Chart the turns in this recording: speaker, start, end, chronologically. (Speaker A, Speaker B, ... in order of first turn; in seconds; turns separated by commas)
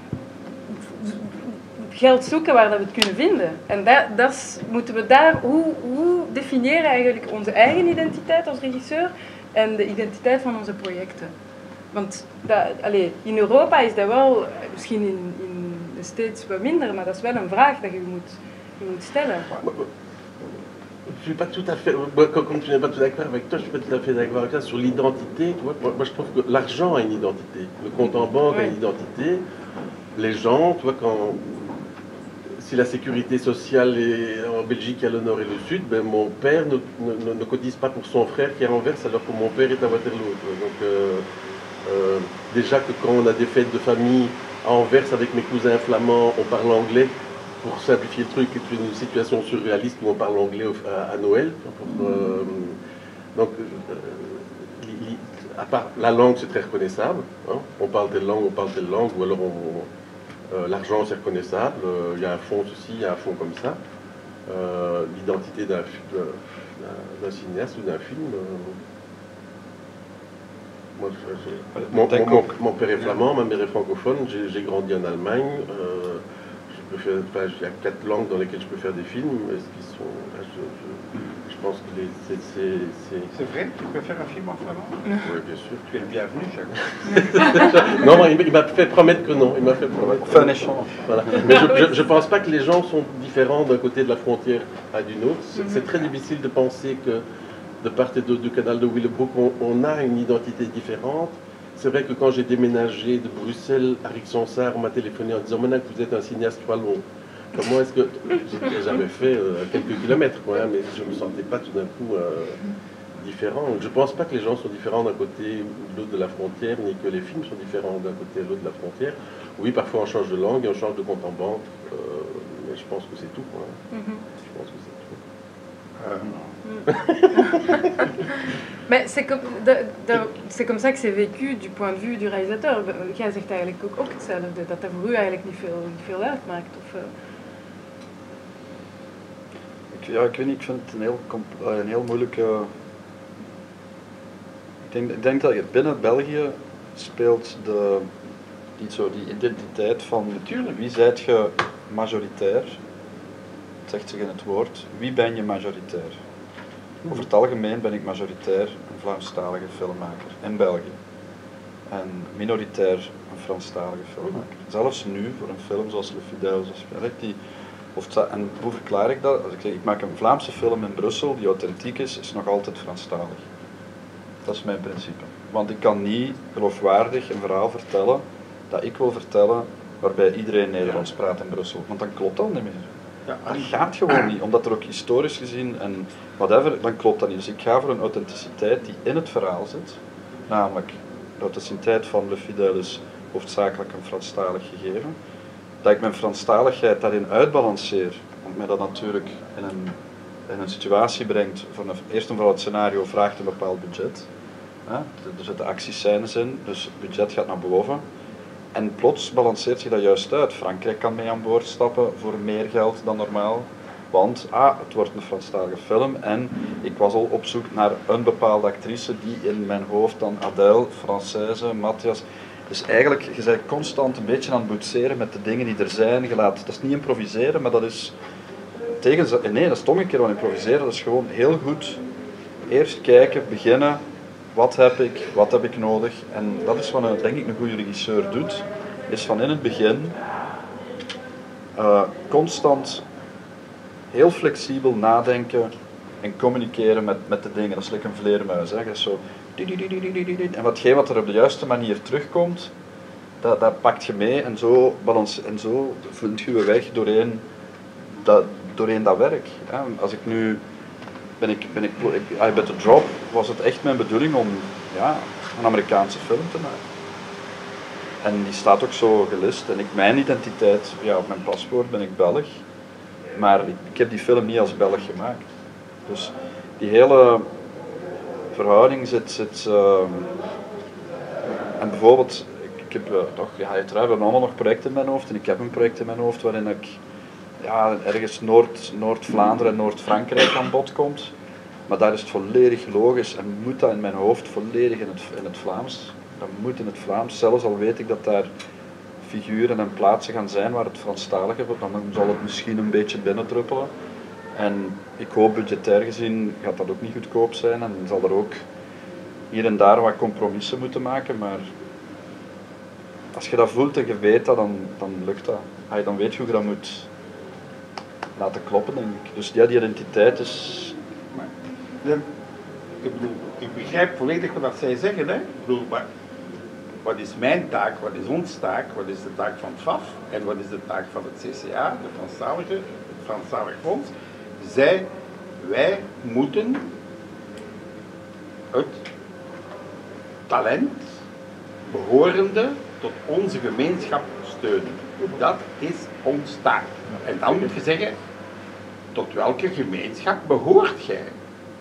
Speaker A: 0.7-11.3, Speaker A: 11.9-19.5, Speaker B: 19.6-19.9, Speaker B: 21.1-29.4, Speaker A: 28.0-28.8, Speaker B: 30.1-31.5, Speaker B: 32.6-41.2, Speaker B: 41.9-52.8, Speaker B: 53.4-59.9, Speaker B: 60.5-63.8, Speaker B: 64.5-68.8, Speaker B: 71.0-83.3, Speaker C: 71.8-72.5, Speaker D: 83.3-85.0, Speaker B: 85.2-86.1, Speaker D: 85.9-87.2, Speaker B: 86.8-97.2, Speaker A: 87.1-87.8, Speaker C: 90.0-90.9, Speaker A: 91.6-91.9, Speaker A: 95.5-95.9, Speaker B: 97.8-107.0, Speaker B: 107.5-112.7, Speaker B: 113.2-123.8, Speaker A: 123.9-124.2, Speaker B: 124.4-125.2, Speaker D: 126.0-126.3, Speaker A: 126.6-127.8, Speaker B: 126.9-127.8, Speaker A: 128.9-137.1, Speaker C: 139.9-142.7, Speaker C: 144.8-148.1, Speaker C: 148.8-152.8, Speaker C: 153.9-156.2, Speaker C: 157.1-161.0, Speaker C: 161.9-167.4, Speaker C: 167.9-173.4, Speaker C: 174.4-182.9, Speaker D: 183.3-184.3, Speaker C: 183.5-195.2, Speaker C: 195.8-200.0, Speaker C: 200.5-204.3, Speaker C: 204.9-208.0, Speaker C: 208.7-228.2, Speaker C: 229.0-232.0, Speaker C: 232.7-234.0, Speaker C: 234.5-240.2, Speaker C: 241.8-243.1, Speaker C: 244.1-252.7, Speaker C: 253.4-257.4, Speaker C: 258.2-260.6, Speaker C: 261.4-266.8, Speaker C: 268.2-272.6, Speaker C: 273.4-275.5, Speaker C: 276.1-277.5, Speaker C: 278.5-280.3, Speaker C: 281.8-287.0, Speaker C: 287.6-291.3, Speaker C: 291.9-298.5, Speaker C: 299.2-303.9, Speaker C: 304.6-308.6, Speaker C: 309.5-311.7, Speaker C: 313.3-317.1, Speaker C: 318.4-321.0, Speaker D: 323.0-326.1, Speaker D: 327.0-336.9, Speaker D: 338.7-339.0, Speaker D: 340.5-341.1, Speaker D: 341.9-348.1, Speaker D: 349.1-351.3